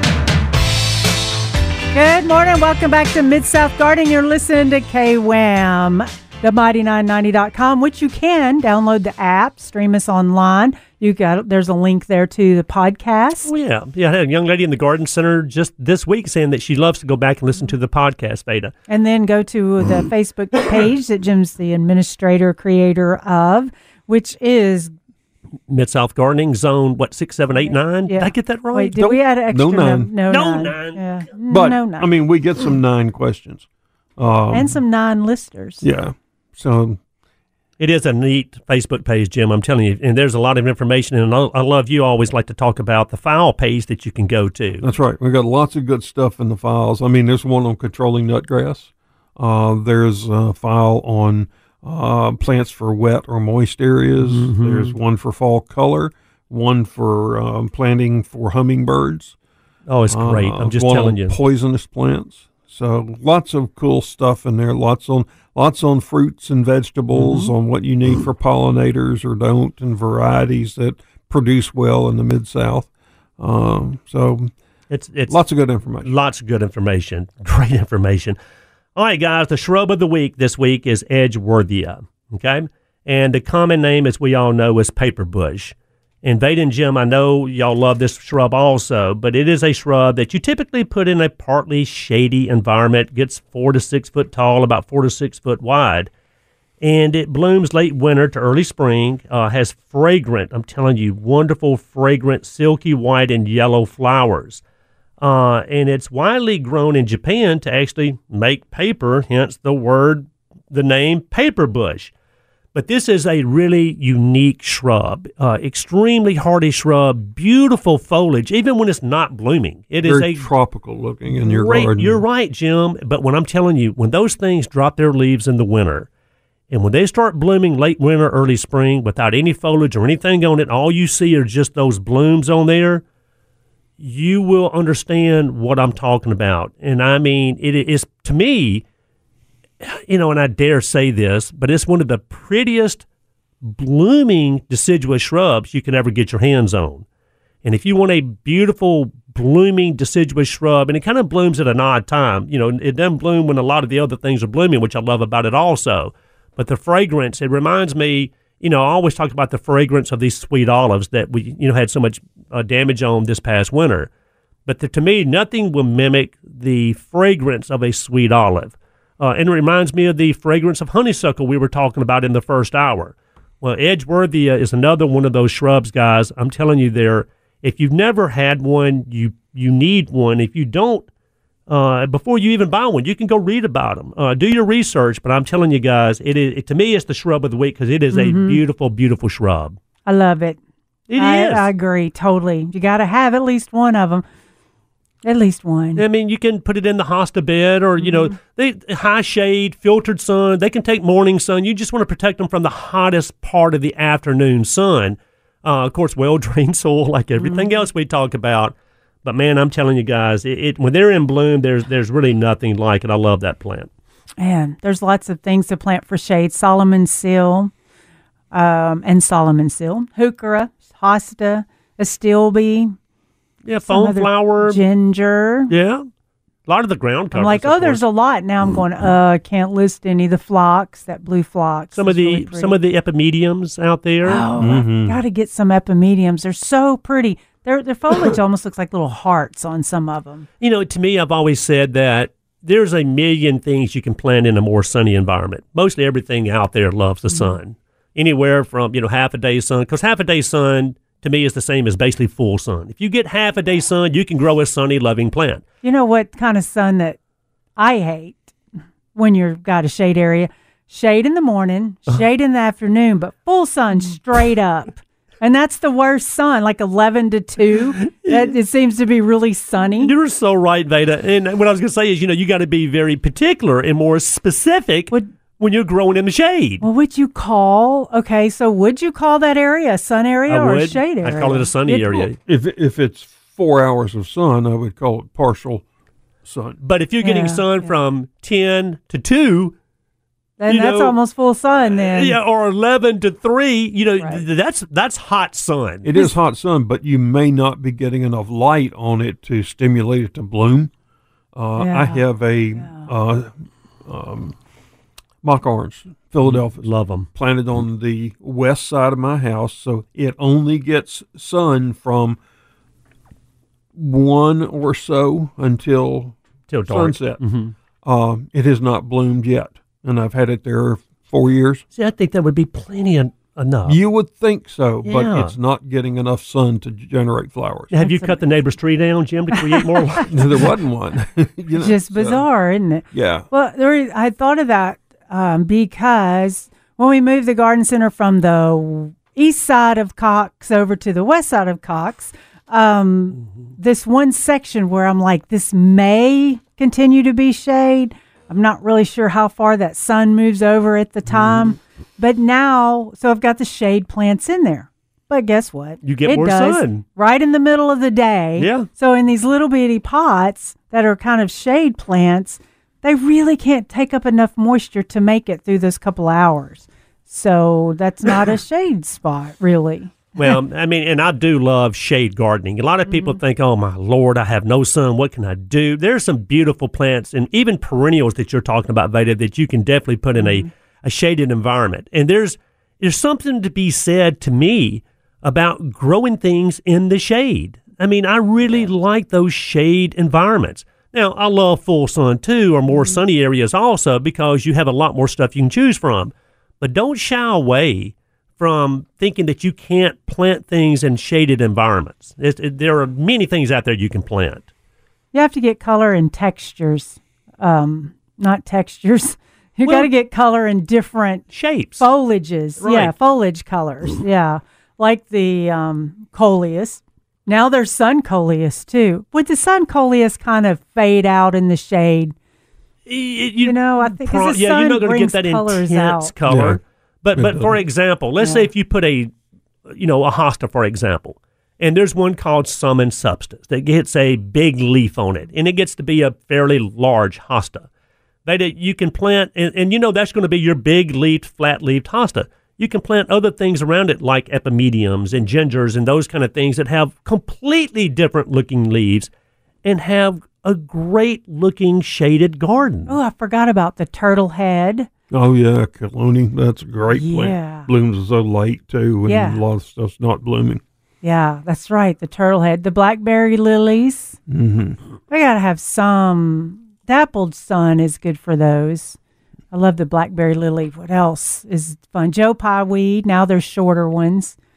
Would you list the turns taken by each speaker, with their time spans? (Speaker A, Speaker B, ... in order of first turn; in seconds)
Speaker A: 1.9-13.5, 18.9-24.9, 28.1-32.1, 34.5-35.8, 188.1-188.6, 190.1-190.6, 191.2-194.2, 195.2-196.0, 198.0-198.3, 207.4-207.7, 214.4-217.7, 218.5-222.9, 223.8-225.7, 227.3-232.7, 234.2-240.5, 247.3-247.5, 255.8-257.2, 257.8-258.5, 259.1-270.1, 276.8-282.3, 287.2-287.9, 290.6-292.4, 301.8-302.2, 302.8-303.1, 328.0-328.3, 329.7-330.2, 331.8-370.6, 373.1-373.4, 380.4-380.7, 392.9-393.2, 405.3-411.4, 412.0-422.3, 423.6-426.3, 428.4-428.7, 453.1-455.1, 457.1-457.9, 459.2-459.6, 461.2-464.4, 465.3-469.2, 469.7-474.6
Speaker B: 13.4-18.7, 25.7-29.0, 30.3-31.0, 37.8-44.8, 54.2-54.9, 59.9-61.4, 67.1-67.5, 74.9-75.4, 76.0-78.3, 79.0-96.1, 96.8-104.6, 105.2-112.1, 112.7-120.5, 121.4-126.1, 126.7-133.0, 134.0-138.8, 139.8-143.0, 143.6-147.0, 147.6-164.1, 164.7-181.1, 181.7-189.8, 191.1-191.7, 195.9-213.9, 223.6-224.8, 225.7-226.0, 226.7-228.0, 231.9-234.4, 240.6-255.6, 268.2-268.5, 270.0-276.8, 280.5-282.4, 286.8-289.7, 290.7-291.1, 292.1-296.1, 306.4-307.3, 316.7-317.7, 321.9-324.0, 325.0-325.5, 327.9-330.6, 351.3-351.6, 356.0-357.0, 358.6-358.9, 370.4-404.7, 411.5-412.1, 412.8-413.1, 423.1-429.3, 429.9-437.9, 438.4-449.3, 449.8-453.2
Speaker C: 29.0-30.1, 31.5-34.7, 35.8-37.0, 44.8-59.4, 60.1-74.5, 75.3-76.1, 120.0-122.2, 234.6-235.2, 282.4-285.8, 286.4-286.8, 296.0-300.9, 301.5-304.5, 305.4-312.4, 313.9-316.4, 316.9-317.4, 318.0-321.8, 323.9-327.9, 330.3-332.4, 333.1-333.5, 426.5-426.8, 427.3-427.8, 455.3-460.8, 464.5-465.0